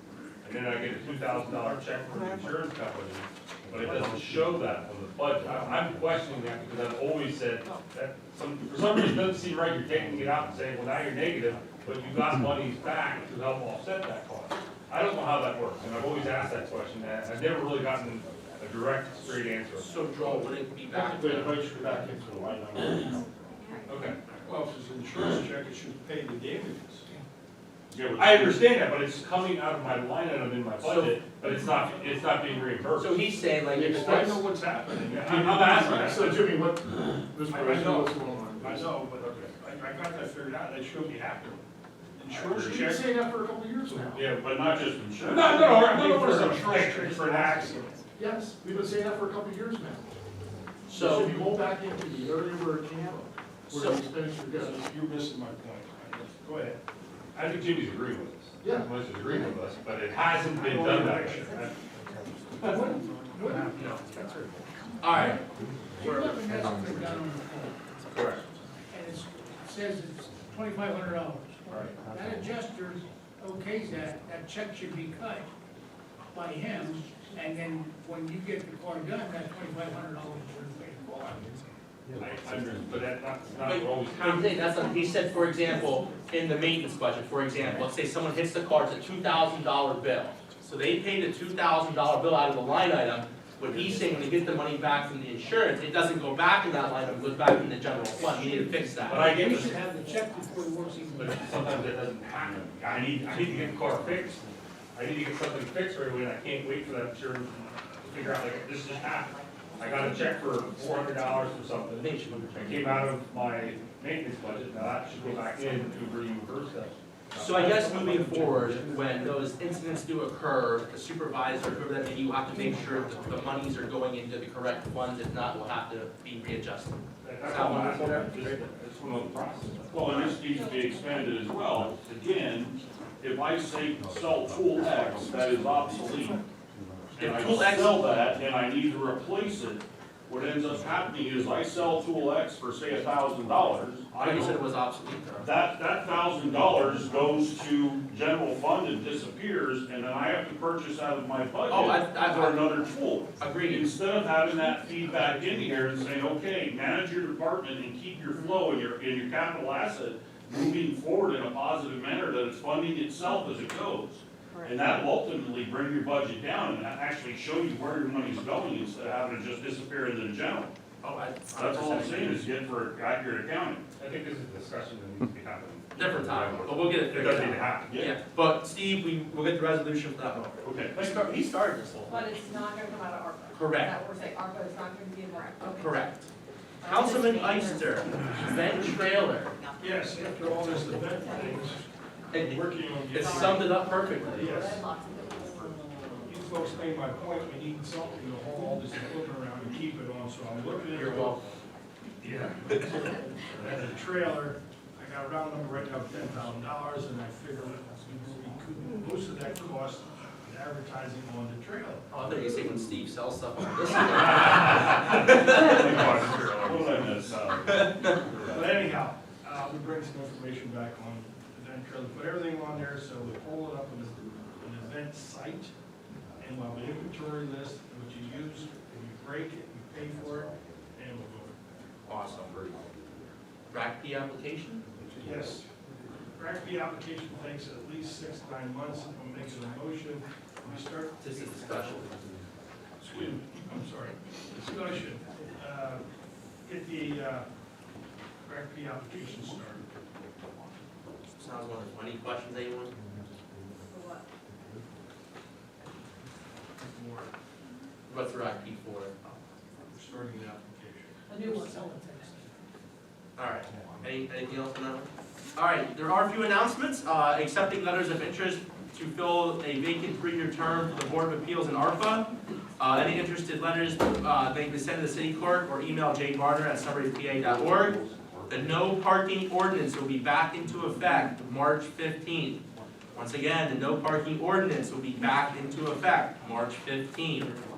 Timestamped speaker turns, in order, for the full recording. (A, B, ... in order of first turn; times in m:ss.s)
0:00.4-0:19.9 A
0:19.8-0:21.6 B
0:20.9-0:23.3 C
0:23.9-0:24.2 A
0:24.4-0:27.1 D
0:27.9-0:28.6 E
0:28.2-0:33.2 A
0:33.0-0:34.4 B
0:33.7-0:38.9 C
0:34.9-0:36.2 D
0:35.1-0:36.4 A
0:37.5-0:41.6 D
0:39.2-0:39.5 A
0:42.2-0:43.0 D
0:42.3-0:44.2 C
0:42.5-0:42.8 A
0:44.1-0:44.4 A
0:44.2-0:45.5 E
0:45.2-0:47.9 A
0:45.5-0:48.4 D
0:45.6-0:46.1 C
0:48.2-0:50.1 C
0:50.9-0:51.4 B
0:50.9-0:54.8 C
0:53.7-0:54.0 B
0:54.5-0:56.8 D
0:57.4-1:01.7 A
0:58.6-0:58.9 C
1:00.6-1:01.6 D
1:02.6-1:03.9 F
1:03.5-1:04.0 D
1:03.8-1:04.0 B
1:05.0-1:05.4 B
1:06.0-1:07.8 F
1:06.0-1:06.4 B
1:08.1-1:08.4 A
1:08.9-1:15.5 F
1:16.3-1:21.6 F
1:22.2-1:24.6 A
1:23.6-1:39.8 B
1:38.5-1:41.8 F
1:39.1-1:39.8 A
1:41.2-1:44.4 A
1:45.0-1:59.0 A
1:52.0-1:52.5 B
1:57.4-2:08.6 B
2:07.2-2:10.4 A
2:09.9-2:16.4 E
2:12.0-2:12.2 A
2:14.8-2:16.4 C
2:17.2-2:18.1 B
2:17.2-2:24.6 E
2:24.2-2:25.5 B
2:25.4-2:50.7 E
2:31.7-2:32.6 B
2:33.4-2:33.9 B
2:51.0-2:52.5 B
2:51.5-2:53.8 E
2:54.0-2:57.9 A
2:55.9-3:02.2 B
2:57.9-2:58.2 E
3:00.6-3:01.2 E
3:02.2-3:03.4 G
3:03.5-3:04.0 B
3:04.0-3:05.8 G
3:05.7-3:06.3 B
3:06.8-3:09.6 B
3:06.9-3:07.8 G
3:09.8-3:13.8 D
3:12.3-3:14.6 B
3:14.3-3:14.8 D
3:14.6-3:15.7 G
3:16.2-3:21.4 D
3:20.9-3:21.5 B
3:22.2-3:32.0 D
3:32.1-3:36.1 B
3:34.8-3:37.2 A
3:35.6-3:37.6 E
3:38.4-3:45.7 D
3:46.4-3:51.6 D
3:52.1-3:52.6 B
3:53.7-3:54.8 B
3:55.2-3:55.7 D
3:56.4-4:01.3 D
4:01.2-4:02.2 B
4:03.0-4:03.4 E
4:03.3-4:06.0 D
4:06.6-4:07.5 D
4:08.4-4:09.9 D
4:11.4-4:12.9 B
4:16.8-4:17.3 D
4:18.1-4:19.1 B
4:19.8-4:21.9 D
4:21.3-4:22.4 F
4:23.4-4:32.3 B
4:32.8-4:38.0 B
4:38.5-4:42.6 B
4:43.1-4:47.5 B